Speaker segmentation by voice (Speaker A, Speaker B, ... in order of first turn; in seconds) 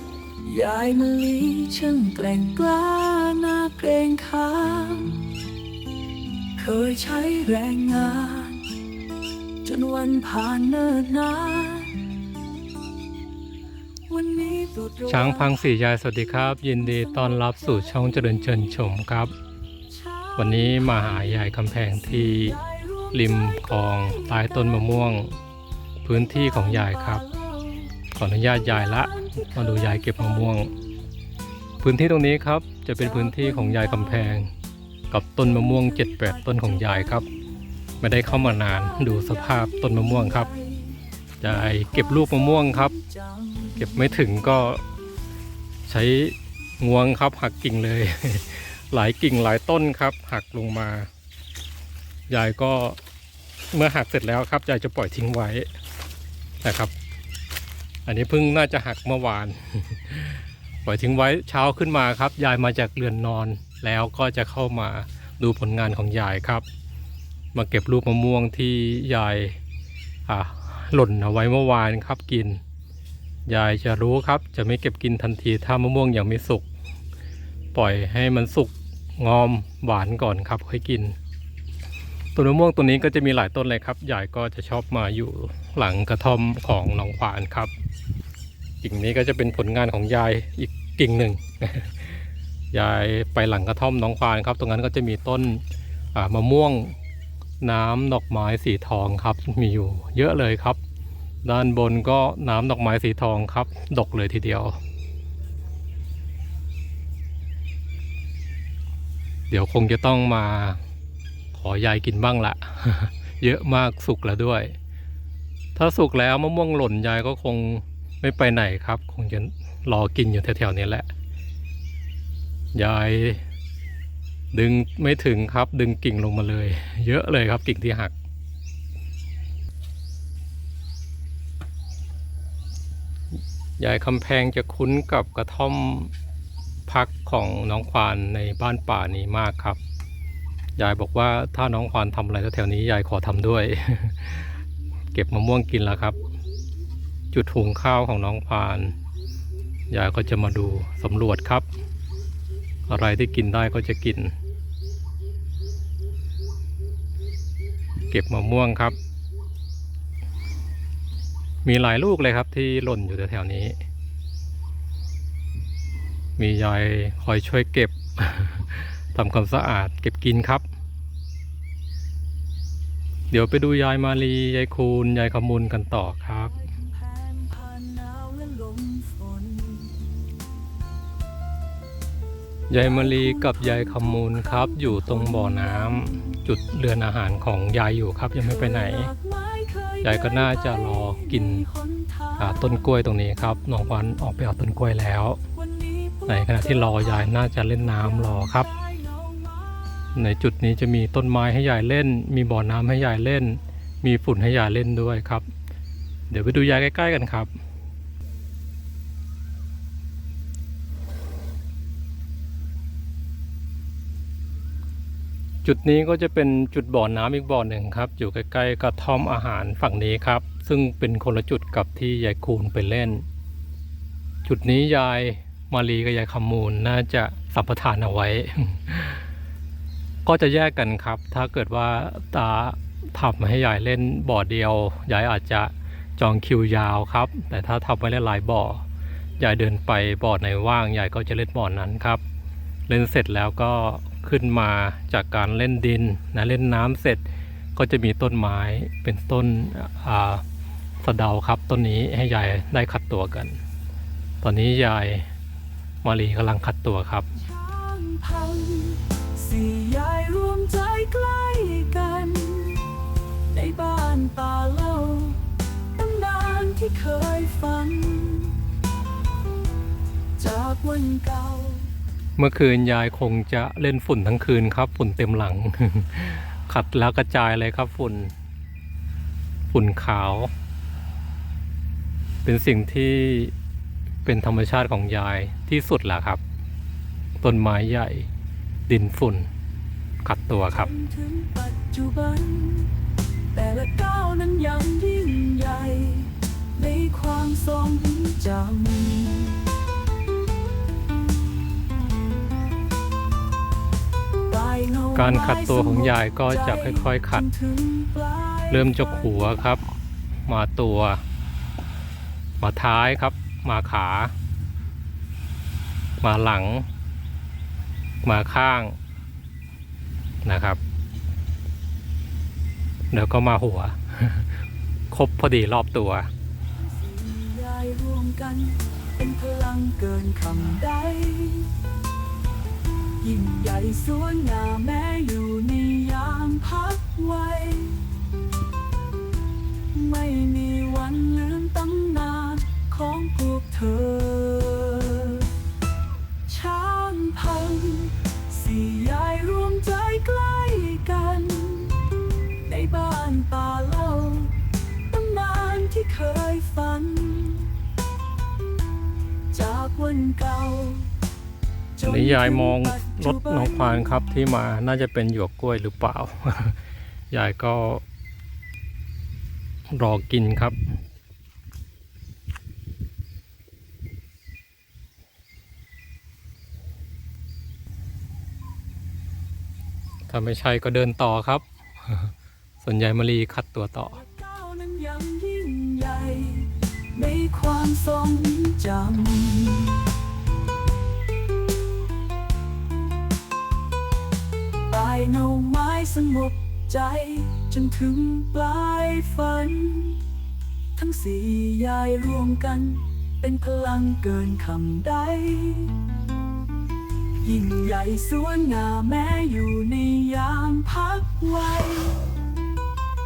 Speaker A: 0.4-5.3, 6.6-8.6, 9.6-12.0, 14.1-15.5, 16.7-18.1, 19.9-21.2, 21.9-25.1, 26.2-30.8, 33.0-34.4, 35.4-37.4, 38.2-44.3, 176.4-180.1, 182.8-186.3, 188.4-192.8, 195.5-200.1, 257.4-262.9, 263.5-268.6, 270.4-271.9, 290.7-292.9, 293.5-299.6, 304.5-309.2, 326.8-331.7, 333.2-338.0, 339.9-345.6, 346.5-352.1, 352.6-357.7, 359.5-361.1, 361.9-364.2, 384.1-390.1, 394.9-400.2, 400.9-406.0, 407.4-412.2
Speaker B: 15.1-19.3, 20.4-22.6, 23.1-25.4, 26.0-27.2, 28.1-30.7, 31.8-34.5, 35.1-37.2, 38.0-40.5, 41.4-42.9, 43.8-44.8, 45.9-51.1, 52.3-53.0, 53.7-55.7, 56.6-56.9, 58.0-66.6, 67.5-69.6, 70.2-72.6, 73.5-76.7, 77.7-81.2, 82.3-87.7, 88.8-95.6, 96.1-97.0, 97.6-100.8, 101.4-104.8, 109.5-110.8, 111.5-114.7, 115.7-121.1, 122.7-123.4, 124.5-128.1, 133.8-136.1, 136.9-139.8, 140.8-144.5, 145.1-146.2, 147.3-149.0, 149.9-151.7, 152.9-154.3, 158.1-158.9, 161.6-163.8, 166.4-170.7, 173.3-176.6, 182.7-189.1, 190.0-191.7, 192.4-195.4, 196.3-198.7, 200.1-205.4, 206.3-207.5, 215.6-223.2, 224.4-229.3, 230.2-238.8, 239.4-242.2, 242.9-250.4, 251.0-253.6, 254.4-255.3, 256.0-257.3, 272.4-278.3, 279.7-280.5, 282.4-283.5, 284.2-286.4, 287.4-288.3, 288.9-289.5, 290.2-290.9, 305.1-307.4, 308.7-309.8, 310.4-311.2, 312.6-314.3, 316.2-316.9, 318.2-319.0, 320.4-320.8, 323.1-324.6, 325.1-326.3, 362.0-366.8, 367.3-368.0, 369.9-370.8, 380.3-384.2